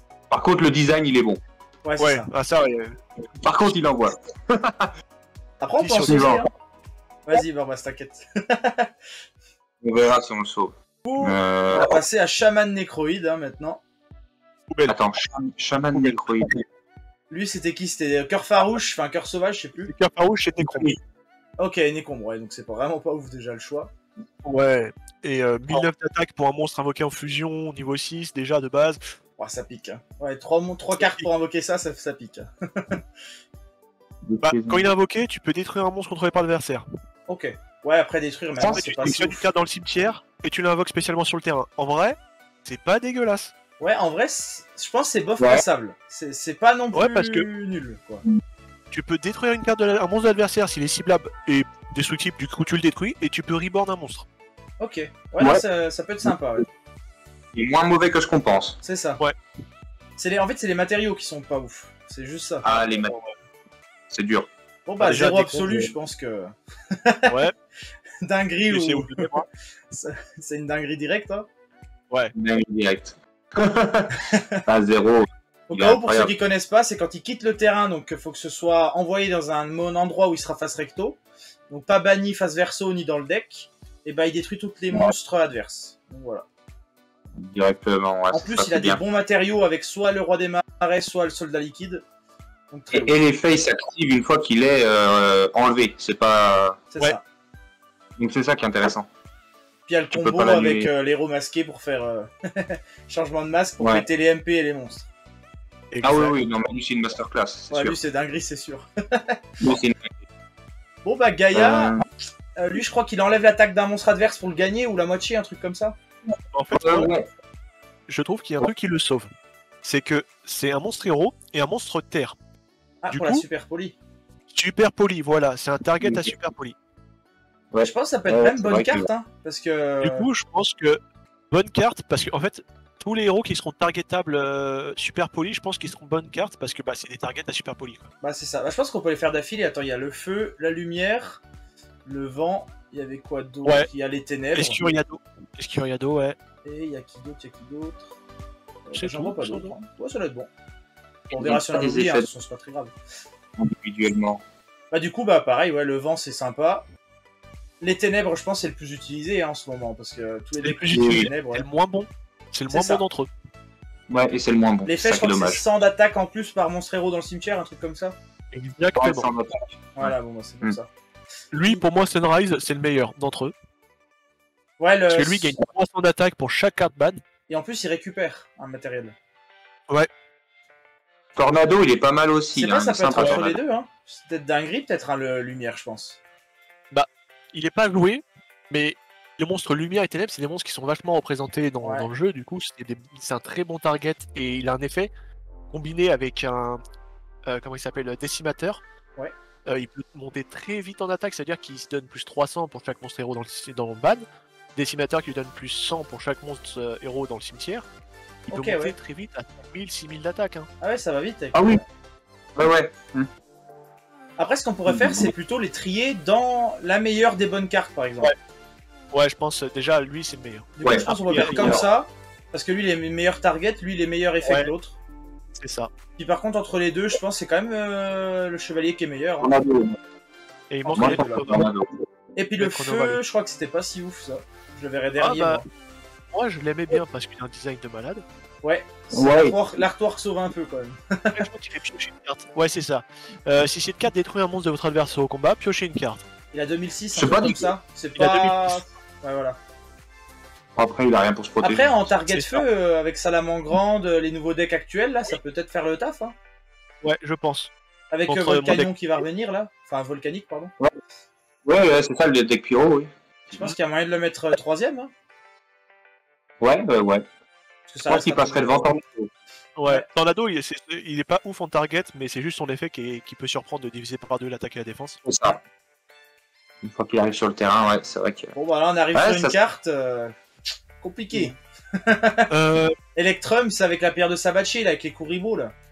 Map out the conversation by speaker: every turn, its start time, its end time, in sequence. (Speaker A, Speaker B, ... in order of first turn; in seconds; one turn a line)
Speaker A: 0.3-1.4
Speaker B: 1.8-2.3
Speaker C: 2.0-3.0
Speaker A: 3.4-4.9
Speaker B: 5.6-6.5
Speaker C: 5.8-6.4
Speaker A: 6.1-6.4
Speaker B: 7.3-8.9
Speaker A: 9.8-12.0
Speaker B: 11.0-13.8
Speaker C: 14.7-15.0
Speaker A: 14.9-16.6
Speaker C: 15.9-16.5
Speaker B: 17.3-19.9
Speaker C: 19.8-20.9
Speaker A: 20.7-21.0
Speaker B: 21.6-23.9
Speaker C: 24.4-29.1
Speaker B: 29.4-33.0
Speaker C: 30.9-31.3
Speaker A: 34.3-34.9
Speaker C: 34.4-36.9
Speaker B: 37.3-39.5
Speaker A: 38.6-39.1
Speaker C: 38.7-43.5
Speaker B: 43.8-48.2
Speaker A: 45.4-45.6
Speaker C: 46.9-47.5
Speaker C: 48.9-54.2
Speaker B: 54.8-56.7
Speaker A: 57.5-58.8
Speaker B: 58.8-59.2
Speaker B: 60.2-62.7
Speaker A: 62.6-63.1
Speaker C: 62.6-63.3
Speaker A: 64.1-64.5
Speaker B: 64.9-67.4
Speaker C: 65.0-65.9
Speaker C: 67.3-67.5
Speaker B: 68.2-69.3
Speaker C: 68.7-69.5
Speaker B: 69.9-71.5
Speaker A: 72.3-76.3
Speaker B: 74.3-74.6
Speaker B: 75.7-86.5
Speaker A: 87.3-89.0
Speaker B: 88.3-92.0
Speaker B: 92.7-93.2
Speaker A: 92.9-96.8
Speaker B: 96.9-97.2
Speaker A: 98.2-99.1
Speaker B: 99.9-105.1
Speaker A: 100.1-100.9
Speaker A: 103.8-104.1
Speaker C: 105.9-106.3
Speaker A: 106.0-108.0
Speaker B: 107.7-109.4
Speaker A: 109.6-110.2
Speaker B: 111.0-112.0
Speaker A: 111.5-112.0
Speaker B: 112.6-116.0
Speaker C: 116.5-117.1
Speaker A: 116.7-117.3
Speaker C: 118.1-119.3
Speaker C: 119.8-122.4
Speaker B: 123.0-124.0
Speaker C: 123.1-123.4
Speaker C: 124.5-126.8
Speaker A: 126.0-126.3
Speaker A: 127.7-129.1
Speaker B: 127.8-130.3
Speaker C: 130.0-131.0
Speaker C: 131.5-138.1
Speaker B: 138.2-141.4
Speaker B: 142.1-144.8
Speaker C: 144.6-146.4
Speaker B: 146.7-148.2
Speaker B: 148.9-150.5
Speaker C: 148.9-149.7
Speaker B: 151.3-152.9
Speaker A: 151.3-152.3
Speaker A: 153.6-154.4
Speaker B: 154.9-156.9
Speaker B: 157.8-161.7
Speaker C: 160.6-163.3
Speaker A: 160.9-161.3
Speaker B: 162.7-163.0
Speaker A: 164.1-165.6
Speaker B: 164.8-168.2
Speaker C: 168.5-169.3
Speaker A: 169.0-169.7
Speaker B: 170.0-170.9
Speaker C: 171.5-173.5
Speaker B: 174.8-175.6
Speaker C: 175.1-177.2
Speaker B: 177.5-179.2
Speaker A: 181.4-183.6
Speaker B: 182.6-186.2
Speaker C: 183.2-183.4
Speaker C: 186.9-195.1
Speaker C: 195.7-196.8
Speaker C: 197.5-198.8
Speaker C: 199.7-207.9
Speaker C: 208.5-210.7
Speaker B: 208.5-208.9
Speaker B: 210.8-211.8
Speaker A: 211.5-211.8
Speaker A: 212.6-213.3
Speaker B: 214.4-218.3
Speaker A: 214.9-215.3
Speaker C: 219.1-221.8
Speaker B: 220.8-225.0
Speaker A: 220.8-221.9
Speaker C: 224.5-224.7
Speaker C: 225.6-225.9
Speaker B: 226.2-229.5
Speaker A: 229.4-230.0
Speaker C: 230.7-231.7
Speaker B: 230.8-231.5
Speaker A: 230.9-232.0
Speaker B: 232.4-235.6
Speaker C: 232.6-233.2
Speaker C: 235.2-235.6
Speaker C: 236.3-238.2
Speaker B: 238.6-241.5
Speaker A: 239.1-239.8
Speaker C: 241.3-246.2
Speaker B: 246.5-249.6
Speaker A: 247.2-247.7
Speaker C: 248.2-248.8
Speaker A: 250.8-252.0
Speaker B: 251.6-256.4
Speaker C: 252.3-252.6
Speaker C: 257.0-257.7
Speaker B: 258.1-260.7
Speaker C: 258.3-258.9
Speaker A: 261.6-263.1
Speaker B: 263.5-265.1
Speaker A: 266.6-267.2
Speaker B: 267.9-268.9
Speaker A: 268.1-269.3
Speaker C: 269.8-275.2
Speaker A: 275.3-275.6
Speaker A: 276.8-278.5
Speaker B: 278.6-280.4
Speaker A: 279.1-279.6
Speaker B: 281.0-282.5
Speaker C: 282.5-282.9
Speaker B: 283.2-285.7